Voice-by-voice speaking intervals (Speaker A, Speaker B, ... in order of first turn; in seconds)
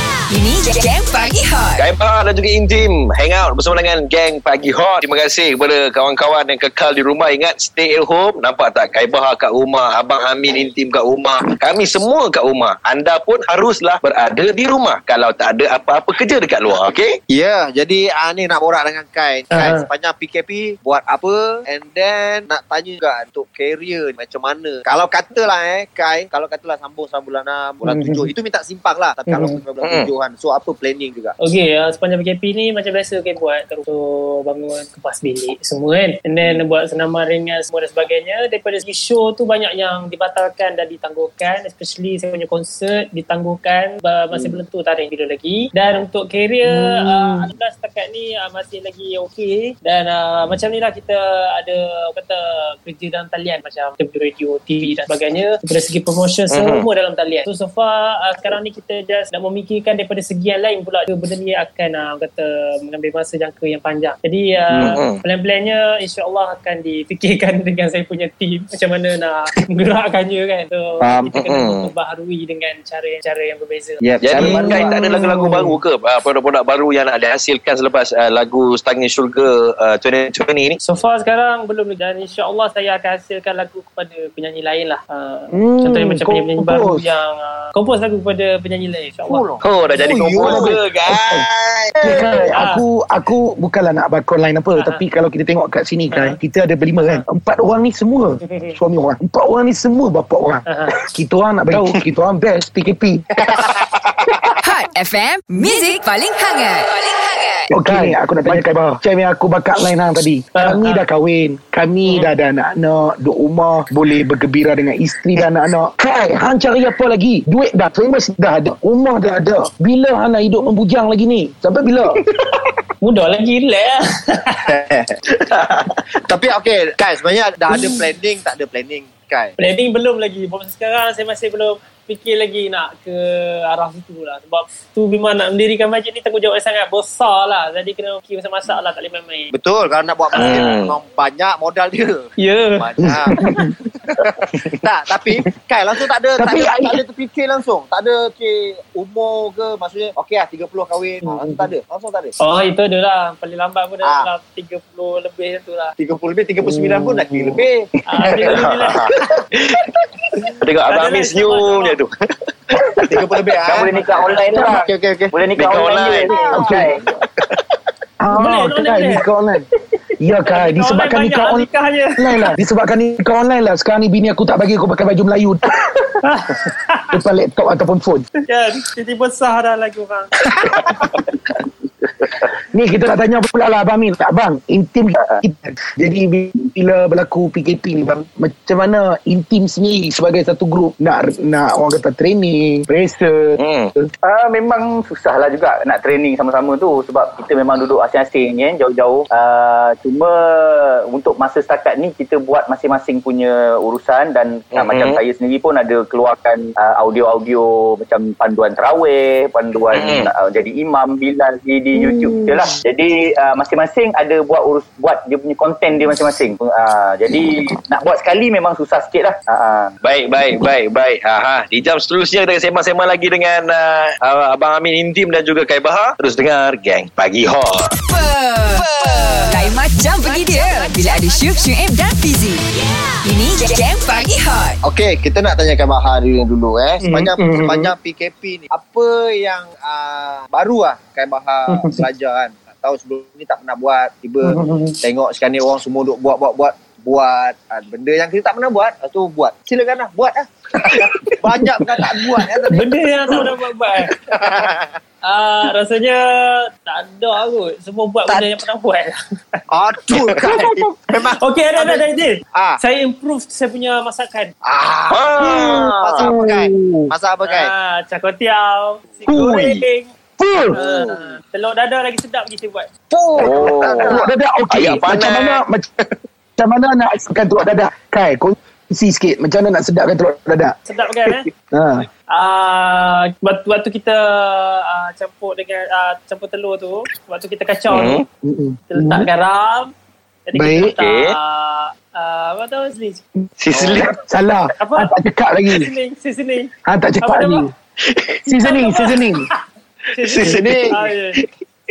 Speaker A: 0.3-1.8, 104.6-107.7, 228.1-232.6, 233.2-234.8
Speaker B: 1.8-17.2, 29.8-30.1, 56.5-56.9, 64.7-65.2, 71.3-71.9, 74.2-80.8, 89.6-92.2, 125.5-125.9, 140.4-140.9, 158.5-160.0, 160.6-162.1, 162.7-163.1, 165.6-166.5, 193.6-193.9, 204.7-205.2, 209.9-210.3, 220.0-227.9, 265.1-266.3, 273.4-275.6, 287.9-288.2, 291.0-291.3, 293.6-294.1, 298.1-298.4, 300.2-300.8
Speaker C: 17.3-31.3, 71.0-71.3, 74.0-75.3, 89.2-90.7, 91.9-92.2, 103.4-104.2, 124.7-125.2, 126.2-129.5, 139.5-142.2, 142.8-143.4, 144.1-152.3, 154.0-154.3, 156.0-157.9, 163.1-165.3, 166.3-166.8, 234.8-253.4, 254.3-254.9, 258.3-258.5, 259.7-262.8, 264.6-267.7, 270.7-271.4, 273.1-274.3, 300.4-300.9
Speaker D: 19.5-19.9, 27.9-28.3, 29.3-29.6, 31.4-74.7, 80.8-89.6, 92.4-92.8, 94.8-95.0, 96.1-96.4, 97.0-97.2, 98.5-98.7, 100.7-101.0, 110.5-111.0, 123.0-124.7, 129.6-139.5, 142.4-142.9, 151.2-151.7, 152.4-155.9, 158.1-159.1, 160.8-162.0, 168.3-169.2, 170.4-172.5, 176.2-177.1, 178.5-180.3, 237.0-237.9, 241.7-242.0, 244.5-244.9, 252.7-254.1, 255.2-256.2, 256.8-259.1, 260.4-264.5, 267.4-270.1, 270.7-272.9, 280.9-281.5, 282.3-288.2, 288.9-289.9, 290.5-293.2, 294.8-295.1, 295.7-296.7, 297.2-297.6, 298.6-299.5, 300.1-301.4
Speaker E: 46.7-47.5, 74.3-75.8, 85.5-87.1, 90.3-91.5, 92.0-103.2, 107.7-122.2, 143.0-143.7, 146.4-147.0, 166.5-166.9, 168.2-169.7, 170.2-175.8, 177.1-178.2, 182.7-193.6, 211.9-212.7, 265.4-267.0, 269.3-269.8, 270.4-270.8, 273.4-275.9, 276.6-282.0, 288.4-289.3, 290.5-290.9, 293.7-295.9, 296.9-297.7, 298.4-299.5
Speaker F: 163.7-167.0, 194.2-219.9